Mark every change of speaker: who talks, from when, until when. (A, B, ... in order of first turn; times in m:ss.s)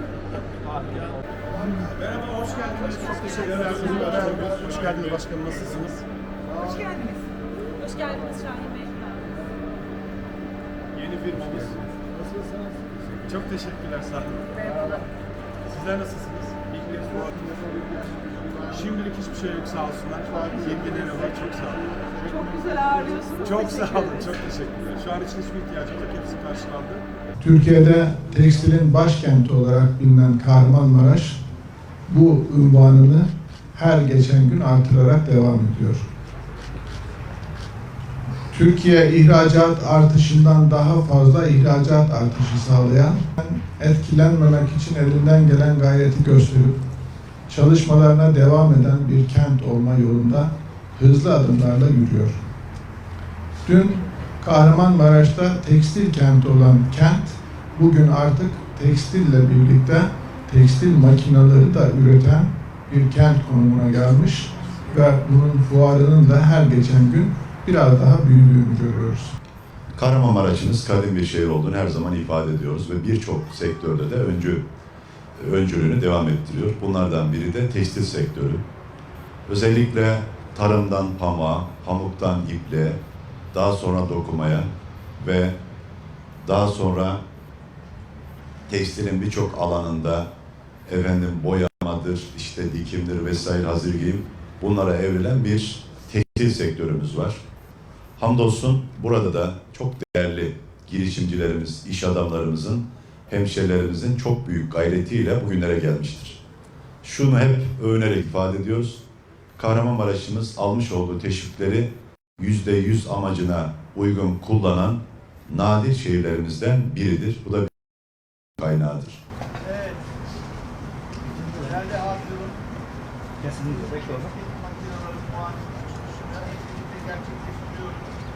0:01.8-0:06.0 A
0:06.7-0:07.2 B
0:07.8-0:09.2 B
0:11.0-0:11.8 A
0:13.2-0:14.8 A
0:15.6-0:17.5 A
0:18.6-0:22.0 A
0:22.3-0:24.0 B
0:23.4-0:27.0 A
0:27.4-0:31.4 C
0:32.1-0:36.0 C
0:38.5-0:46.8 C
0:47.5-0:52.4 C
0:53.6-1:09.4 C
1:10.0-1:14.6 D
1:15.4-1:18.6 D
1:19.5-1:23.0 D
1:23.5-1:25.5 D
1:26.4-1:27.2 D
1:28.7-1:30.3 D
1:30.9-1:37.4 D
1:38.2-1:46.4 D
1:47.0-1:49.0 D
1:49.6-1:57.7 D
1:58.6-1:59.2 D
1:59.6-2:00.0 E
2:01.5-2:02.6 E
2:03.4-2:08.0 E